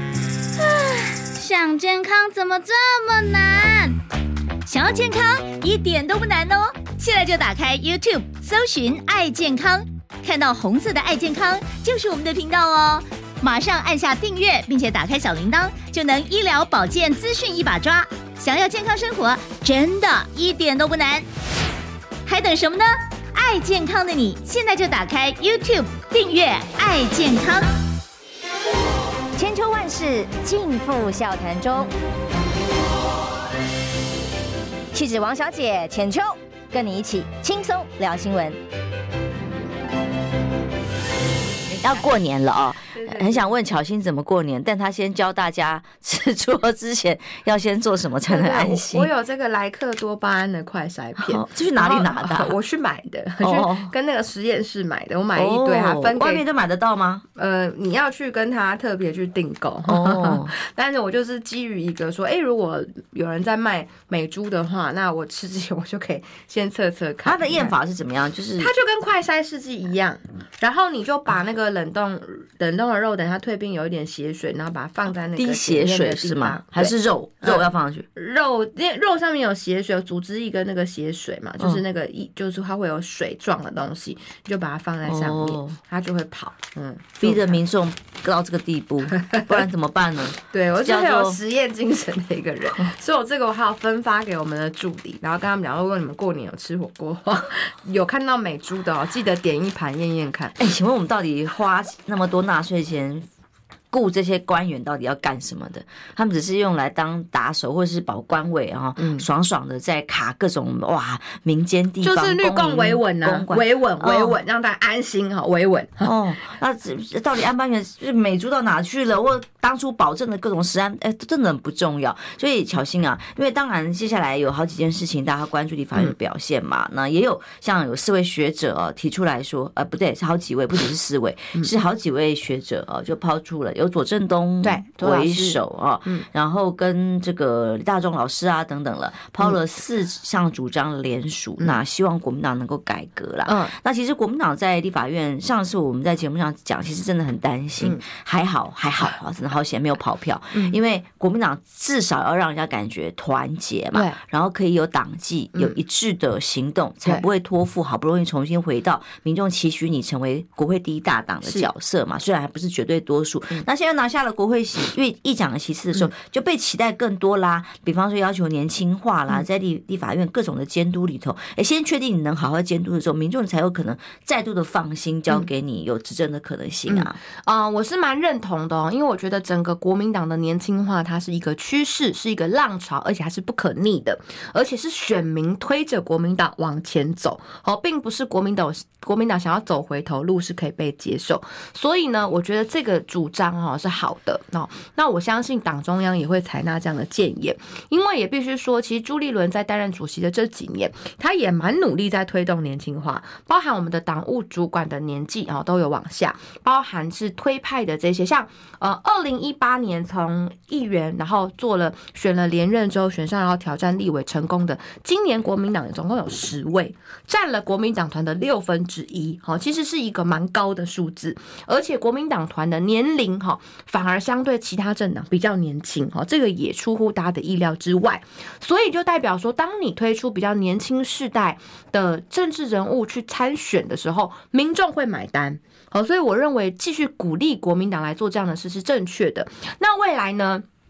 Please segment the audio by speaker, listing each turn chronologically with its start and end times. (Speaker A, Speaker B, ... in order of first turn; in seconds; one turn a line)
Speaker A: 0.6-4.0
Speaker A: 4.7-21.3
Speaker A: 22.3-27.7
Speaker B: 29.4-31.9
Speaker B: 34.9-38.6
Speaker C: 41.7-49.1
Speaker D: 42.9-43.5
Speaker D: 48.3-56.4
Speaker C: 51.2-52.6
Speaker C: 53.4-53.9
Speaker C: 55.4-57.2
Speaker D: 57.4-67.7
Speaker C: 59.9-60.5
Speaker C: 67.2-68.7
Speaker D: 68.6-87.5
Speaker C: 75.3-78.0
Speaker C: 85.1-85.8
Speaker C: 87.2-91.4
Speaker D: 90.5-100.5
Speaker C: 100.6-103.2
Speaker C: 103.9-114.4
Speaker D: 109.0-109.2
Speaker D: 112.0-116.1
Speaker C: 116.0-177.2
Speaker D: 134.6-136.3
Speaker D: 143.5-143.7
Speaker D: 153.9-154.2
Speaker D: 176.9-240.7